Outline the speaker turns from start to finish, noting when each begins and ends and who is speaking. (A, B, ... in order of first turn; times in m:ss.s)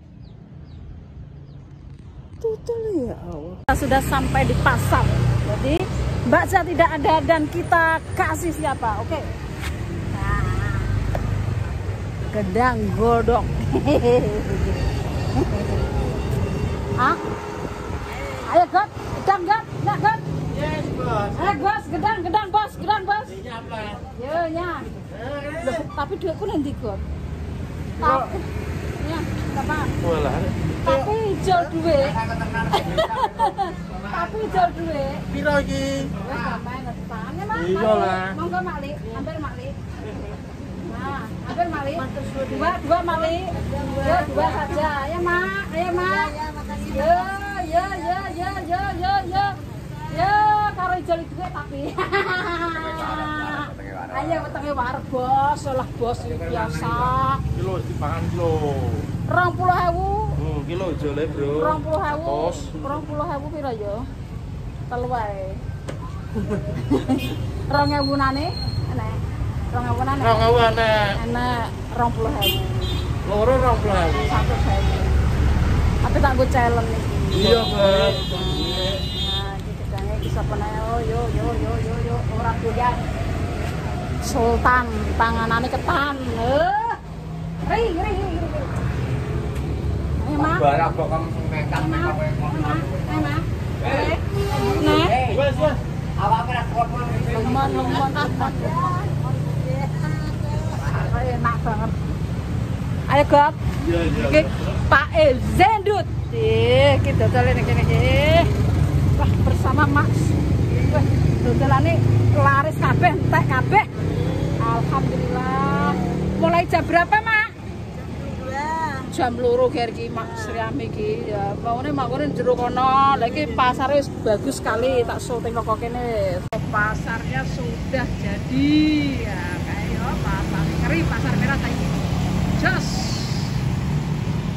0:02.4-0:09.3 A
0:10.1-0:11.1 A
0:12.2-0:15.9 A
0:18.4-0:20.2 A
0:20.5-0:21.3 B
0:21.3-0:27.0 A
0:23.6-0:23.9 B
0:25.2-0:25.5 B
0:28.0-0:28.4 A
0:29.0-0:29.9 A
0:30.0-0:30.7 B
0:30.8-0:35.2 A
0:31.9-0:34.5 C
0:35.3-0:36.1 B
0:35.9-0:57.4 A
0:37.6-0:38.4 B
0:41.9-0:44.9 C
0:45.9-0:48.5 C
0:49.4-0:50.2 C
0:52.8-0:54.2 C
0:57.5-0:59.0 B
0:59.3-1:00.4 A
1:00.4-1:02.7 B
1:01.5-1:04.1 A
1:04.9-1:05.6 A
1:06.4-1:09.2 A
1:09.7-1:13.2 A
1:10.2-1:11.2 B
1:13.2-1:14.3 B
1:13.8-1:15.2 A
1:16.0-1:23.0 A
1:17.3-1:19.0 B
1:24.2-1:27.0 A
1:27.6-1:28.7 A
1:30.2-1:30.9 A
1:30.5-1:32.5 C
1:31.7-1:35.3 A
1:33.8-1:41.1 C
1:35.3-1:35.8 B
1:37.2-1:39.0 A
1:40.7-1:42.1 A
1:43.1-1:48.5 A
1:43.8-1:44.5 B
1:49.1-1:53.9 A
1:50.7-1:51.0 C
1:54.6-1:57.5 A
1:57.9-1:59.1 C
1:59.1-2:12.0 A
2:00.3-2:00.6 C
2:03.4-2:03.7 C
2:12.5-2:13.5 A